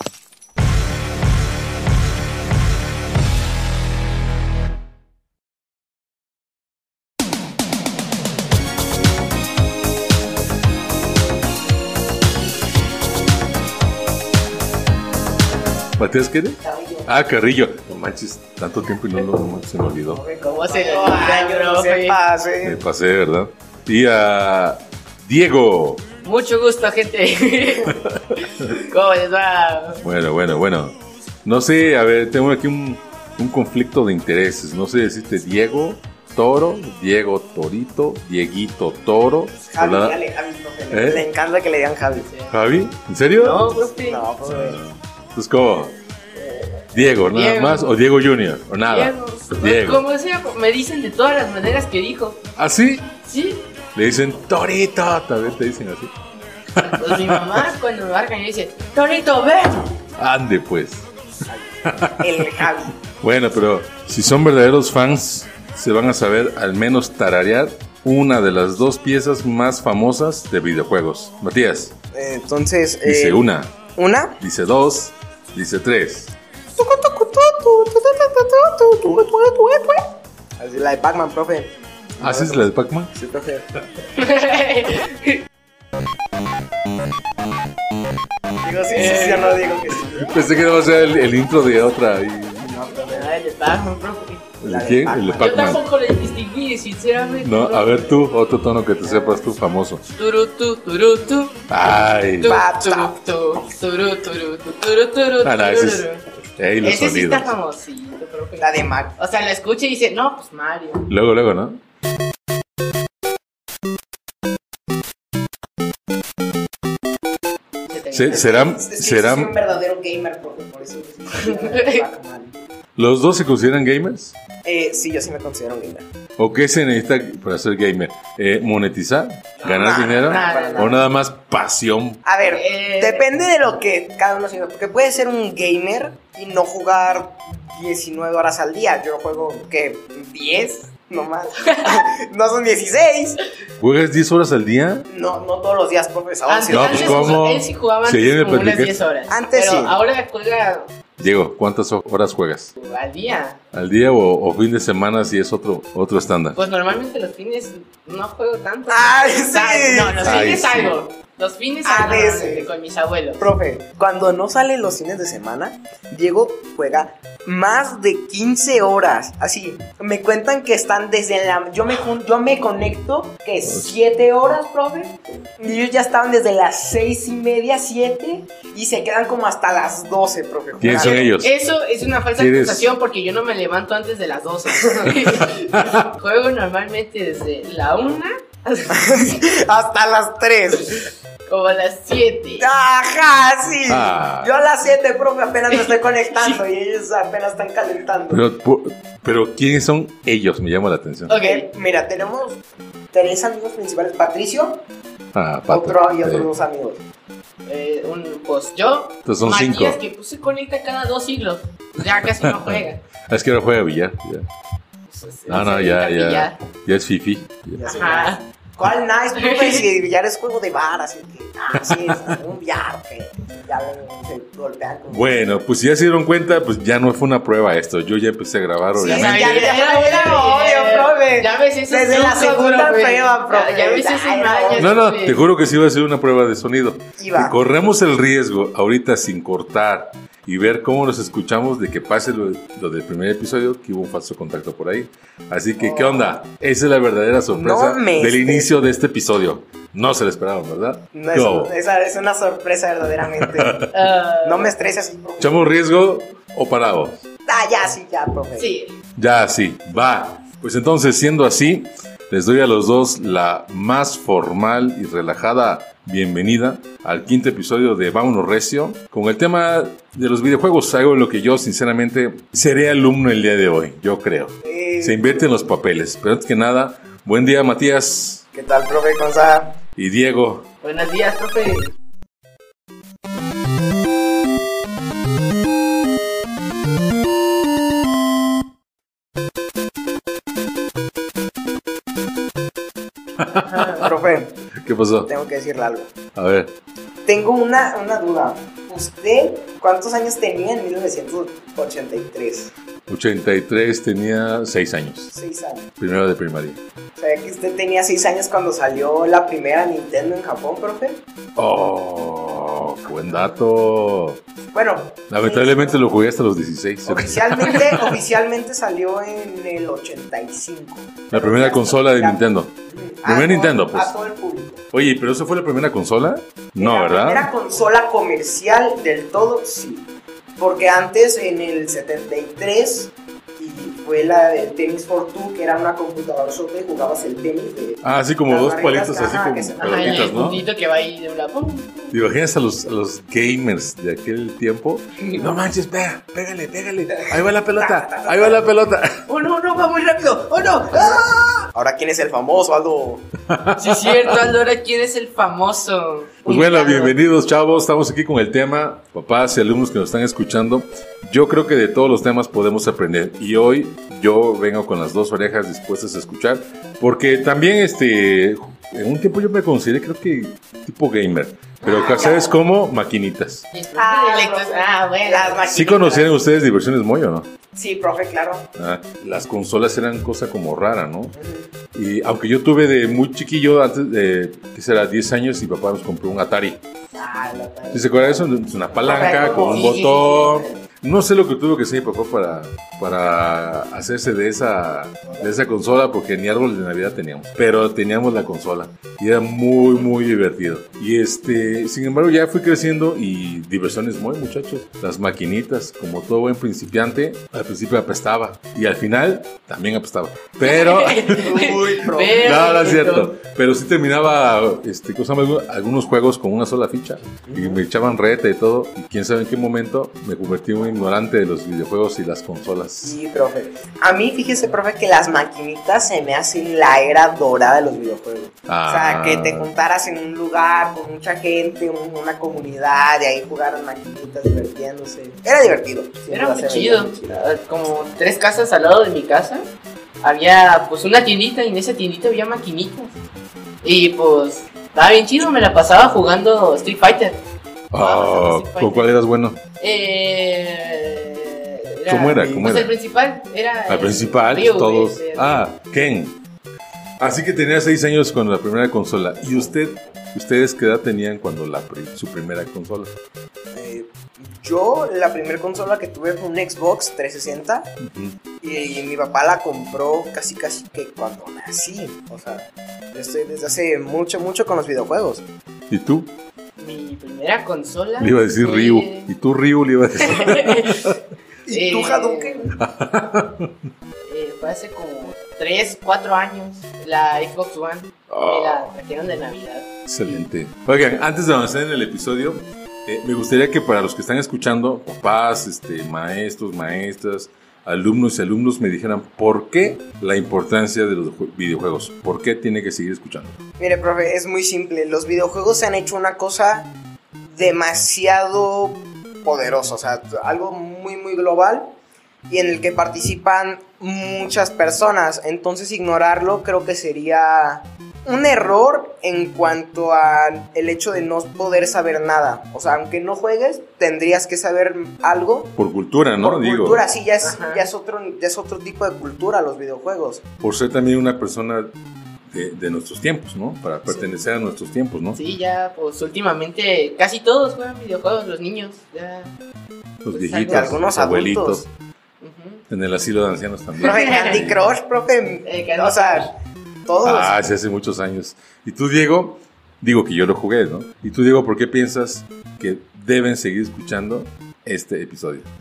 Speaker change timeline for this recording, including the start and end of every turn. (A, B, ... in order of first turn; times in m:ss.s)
0:16.0-0:20.2 A
0:16.6-0:17.1 B
0:20.0-0:22.8 B
0:20.4-0:22.2 C
0:22.6-0:26.0 A
0:26.2-0:30.0 C
0:30.0-0:40.2 A
0:39.7-0:42.3 B
0:40.9-0:41.3 A
0:42.2-0:42.6 C
0:42.5-0:43.7 A
0:43.3-0:44.2 C
0:43.7-0:44.8 B
0:44.4-0:46.0 A
0:46.4-0:46.7 C
0:46.9-0:50.0 A
0:47.3-0:47.9 C
0:48.9-0:52.4 C
0:52.6-0:53.1 A
0:53.2-0:53.7 C
0:54.0-0:56.1 A
0:56.7-0:57.6 A
0:56.9-0:59.9 C
1:00.2-1:01.1 A
1:01.5-1:03.0 B
1:01.8-1:11.9 A
1:12.1-1:13.4 B
1:13.0-1:13.8 A
1:14.0-1:14.4 B
1:14.4-1:16.4 A
1:16.8-1:20.0 B
1:20.6-1:23.7 B
1:22.2-1:23.1 A
1:24.1-1:25.4 C
1:28.6-1:31.2 B
1:28.9-1:29.6 C
1:29.0-1:29.4 A
1:30.1-1:32.7 A
1:32.6-1:33.4 B
1:33.1-1:34.5 C
1:34.6-1:35.8 A
1:34.6-1:35.6 B
1:35.4-1:38.2 C
1:37.4-1:40.1 A
1:39.1-1:39.4 B
1:40.2-1:41.6 C
1:41.7-1:42.5 A
1:42.4-1:46.2 C
1:42.4-1:43.2 B
1:45.4-1:46.1 A
1:46.6-1:47.6 A
1:46.8-1:51.1 C
1:48.6-1:49.2 B
1:51.1-1:51.8 A
1:57.9-1:58.6 C
1:58.1-1:59.6 A
1:58.3-2:02.6 B
2:01.3-2:02.1 C
2:03.0-2:04.4 A
2:04.6-2:06.1 B
2:06.4-2:12.2 A
2:09.6-2:11.0 B
2:09.6-2:11.0 C
2:12.2-2:23.4 B
2:12.5-2:13.2 C
2:21.6-2:22.0 C
2:23.8-2:25.1 A
2:25.1-2:27.4 B
2:26.5-2:30.9 C
2:26.7-2:29.0 A
2:29.3-2:30.0 B
2:31.2-2:32.7 A
2:32.8-2:33.6 C
2:33.7-2:36.6 A
2:36.6-2:43.5 C
2:38.9-2:40.4 B
2:40.2-2:41.0 A
2:41.8-2:42.7 B
2:43.4-3:01.3 B
2:53.6-2:54.0 A
3:00.8-3:01.5 A
3:00.9-3:09.4 C
3:02.4-3:02.9 A
3:04.8-3:05.2 B
3:05.4-3:06.0 A
3:08.9-3:11.1 B
3:10.8-3:12.7 C
3:12.6-3:18.5 B
3:13.9-3:14.5 A
3:15.7-3:16.6 C
3:18.3-3:21.3 A
3:21.3-3:21.7 C
3:21.4-3:24.8 B
3:25.3-3:26.5 A
3:25.7-3:27.0 B
3:27.7-3:33.0 C
3:29.2-3:30.0 A
3:32.2-3:34.5 A
3:35.1-3:36.6 C
3:35.5-3:37.9 A
3:37.8-3:45.4 B
3:37.8-3:38.4 C
3:39.4-3:39.8 C
3:41.9-3:42.2 A
3:45.1-3:49.7 A
3:49.0-3:54.9 B
3:49.0-3:55.4 C
3:54.8-4:11.7 A
3:57.2-3:57.6 B
4:05.8-4:06.4 B
4:07.5-4:08.7 B
4:11.1-4:13.8 B
4:13.4-4:13.9 A
4:13.9-4:14.8 C
4:14.4-4:15.7 B
4:15.4-4:17.2 A
4:17.5-4:18.7 B
4:18.6-4:19.0 C
4:19.2-4:38.4 A
4:34.6-4:35.6 B
4:38.5-4:39.8 B
4:40.0-4:40.7 A
4:40.8-4:41.9 C
4:53.4-4:54.1 A
4:53.6-4:54.6 B
4:54.8-4:55.3 A
4:55.3-4:56.1 B
4:56.4-4:56.7 A
4:57.3-5:02.7 B
5:03.1-5:05.3 A
5:05.3-5:05.9 B
5:06.0-5:06.8 A
5:07.2-5:11.2 B
5:11.6-5:14.4 A
5:14.7-5:16.2 B
5:15.3-5:18.1 A
5:17.1-5:24.8 B
5:21.3-5:22.7 A
5:23.2-5:24.1 A
5:24.9-5:27.5 A
5:26.8-5:40.4 B
5:38.0-5:40.6 A
5:39.8-5:42.2 C
5:42.1-5:49.2 A
5:45.2-5:45.5 C
5:47.2-5:48.6 B
5:49.3-5:51.6 C
5:51.7-5:53.3 B
5:53.5-5:54.5 A
5:53.8-5:57.2 C
5:56.5-6:13.7 A
6:11.8-6:12.4 C
6:12.0-6:12.5 B
6:13.7-6:15.7 C
6:14.0-6:16.3 B
6:15.7-6:17.5 A
6:17.8-6:18.7 B
6:18.8-6:21.4 A
6:21.4-6:21.7 B
6:21.9-6:26.8 A
6:27.2-6:28.5 B
6:27.9-6:51.5 A
6:29.0-6:30.7 B
6:29.0-6:30.6 C
6:35.3-6:35.5 B
6:50.6-6:53.4 C
6:51.3-6:52.7 B
6:52.4-7:03.2 A
6:57.5-6:57.8 B
7:03.0-7:17.4 B
7:08.7-7:09.7 A
7:16.3-7:19.7 C
7:20.2-7:23.2 C
7:23.8-7:27.4 C
7:27.9-7:29.6 A
7:28.0-7:29.1 C
7:29.8-7:35.7 C
7:32.1-7:33.0 A
7:33.9-7:36.4 A
7:37.2-7:43.2 A
7:43.7-7:47.9 B
7:48.0-7:48.4 A
7:48.6-7:55.5 B
7:55.9-7:56.3 A
7:56.8-7:59.3 C
7:58.2-8:01.1 A
8:00.2-8:01.2 C
8:01.7-8:02.7 B
8:01.7-8:02.7 C
8:02.8-8:03.7 A
8:04.3-8:10.4 C
8:08.3-8:08.9 A
8:10.1-8:23.6 A
8:23.8-8:26.9 B
8:27.5-8:31.9 B
8:32.5-8:45.8 B
8:45.8-8:47.0 A
8:46.4-8:50.4 B
8:47.4-8:47.8 C
8:50.6-8:51.9 A
8:52.5-8:55.4 A
8:55.3-8:59.6 C
9:00.2-9:01.9 A
9:00.3-9:01.0 C
9:00.5-9:01.8 B
9:02.4-9:02.8 C
9:02.9-9:04.8 A
9:04.0-9:04.7 C
9:04.0-9:06.5 B
9:05.6-9:06.5 C
9:07.1-9:07.6 B
9:07.2-9:15.7 A